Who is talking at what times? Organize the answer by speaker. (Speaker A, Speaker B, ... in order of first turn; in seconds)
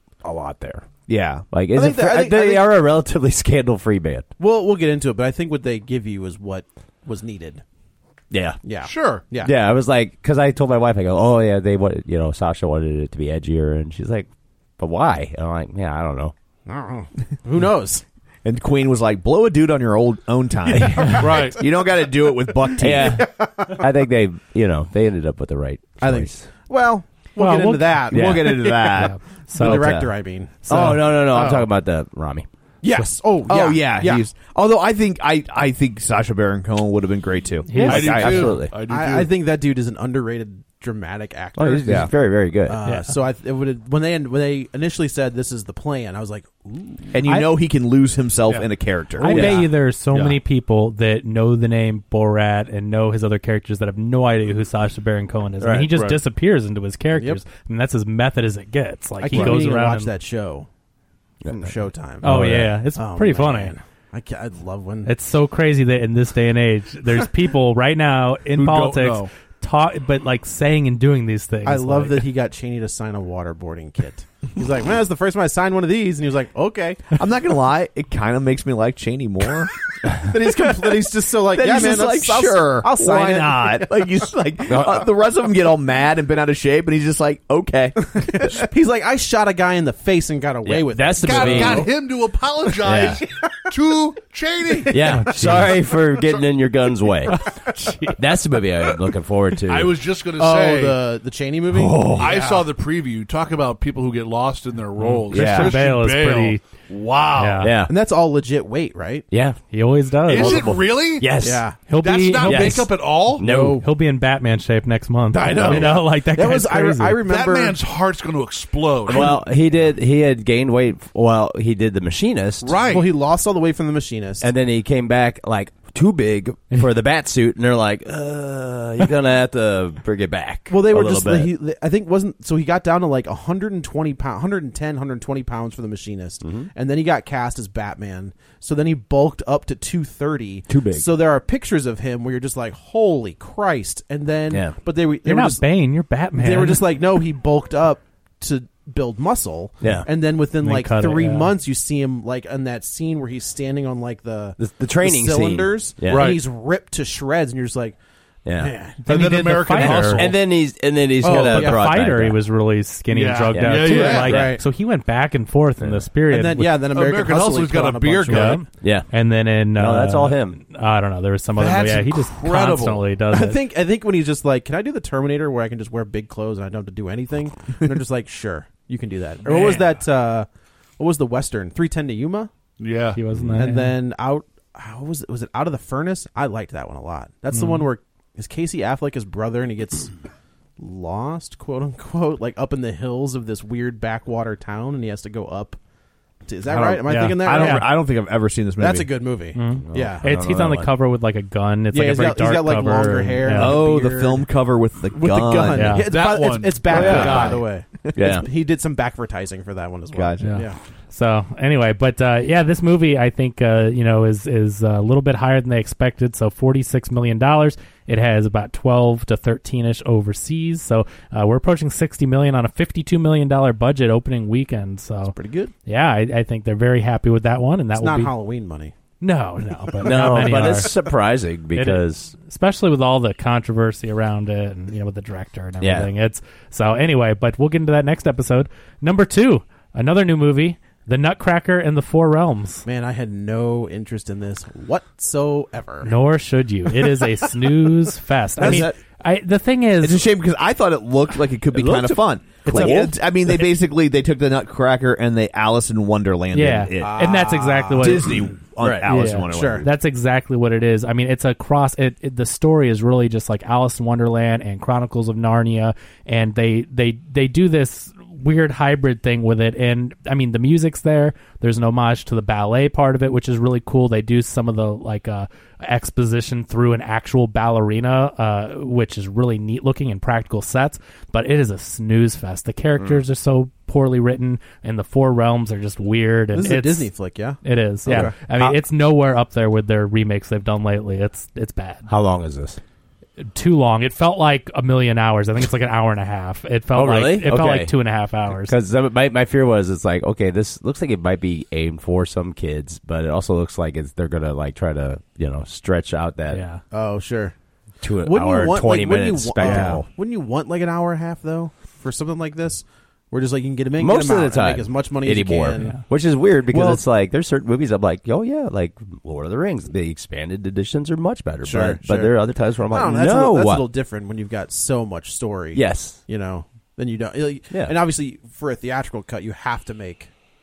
Speaker A: 0.2-0.9, 1.5-4.3, 8.3-8.6, 9.4-14.3, 14.8-16.3, 20.8-21.3, 22.8-26.5, 28.1-28.4, 29.7-30.0, 30.7-32.5, 37.7-38.7, 41.6-42.8, 55.6-55.9, 61.4-62.7, 84.7-85.1, 90.7-91.9, 92.8-93.2, 94.9-97.4, 98.2-100.0, 101.7-102.4, 105.3-105.7, 107.6-107.9, 109.3-109.6, 110.3-111.6, 112.4-113.8, 115.6-115.9, 119.1-122.8, 124.4-131.5, 136.4-136.7, 140.7-141.1, 144.5-144.8, 149.8-150.1, 154.6-156.4, 158.5-158.7, 159.8-162.4, 163.5-164.6, 165.8-166.1, 168.7-169.1, 169.8-170.6, 183.3-183.6, 199.8-200.9, 206.9-207.6, 208.2-208.5, 230.0-232.3, 235.8-236.1, 248.6-248.9, 251.7-253.1, 258.8-259.1, 292.1-292.8, 296.9-298.0, 298.6-306.6, 308.0-310.1, 314.0-323.9, 325.8-326.2, 327.7-328.0
Speaker B: 1.1-1.5, 18.4-23.2, 28.1-30.1, 33.5-38.5, 41.9-42.1, 47.1-49.6, 77.2-79.7, 80.4-88.7, 105.3-105.7, 196.7-199.1, 203.6-206.0, 207.0-207.5, 208.1-208.4, 210.1-210.6, 248.6-248.9, 250.0-257.3, 258.0-259.9, 309.6-310.0
Speaker C: 1.7-2.7, 4.4-7.6, 8.6-9.5, 16.7-18.0, 22.9-23.9, 26.0-31.6, 32.8-34.3, 38.8-42.1, 42.6-47.2, 57.1-57.4, 59.2-60.7, 61.5-62.3, 62.9-65.1, 71.6-77.2, 80.2-84.1, 88.1-91.9, 100.3-102.7, 107.8-109.2, 111.4-111.9, 113.4-113.8, 115.3-117.8, 122.8-124.5, 130.7-145.7, 146.3-158.0, 158.6-159.1, 161.2-161.9, 163.9-164.6, 166.3-168.6, 173.3-180.5, 181.0-182.5, 183.6-190.2, 190.8-195.8, 196.5-197.9, 198.8-200.2, 201.9-204.5, 205.1-210.8, 225.2-225.7, 228.0-228.9, 230.1-230.4, 242.9-246.2, 257.0-258.5, 259.5-259.9, 286.5-288.8, 306.9-307.5, 308.2-316.0, 321.6-322.3, 322.9-330.3
Speaker D: 8.8-9.3, 21.1-21.6, 37.8-39.3, 49.3-50.4, 55.7-56.2, 68.5-69.3, 91.2-95.3, 99.7-101.0, 102.1-107.7, 110.3-113.5, 115.4-116.0, 117.2-119.4, 122.6-123.1, 156.1-156.4, 159.1-160.3, 163.1-164.5, 166.8-168.7, 171.6-173.1, 179.4-179.9, 182.8-183.2, 206.1-207.6
Speaker E: 27.4-28.0, 28.8-29.8, 30.6-31.1, 37.7-38.2, 42.9-43.1, 49.2-60.1, 62.2-63.7, 65.0-72.2, 95.1-95.7, 97.7-98.2, 105.0-106.6, 107.3-107.7, 109.7-110.7, 111.9-112.9, 113.7-117.2, 145.2-146.9, 150.6-151.5, 159.0-160.3, 161.2-166.7, 168.3-173.6, 183.2-183.9, 187.5-187.9, 197.1-197.9, 199.5-203.8, 205.8-206.0, 210.4-225.3, 225.9-228.3, 229.2-231.0, 231.8-242.9, 246.0-250.2, 252.7-253.1, 256.5-258.4, 259.1-287.1, 287.6-292.1, 293.4-298.8, 306.5-306.8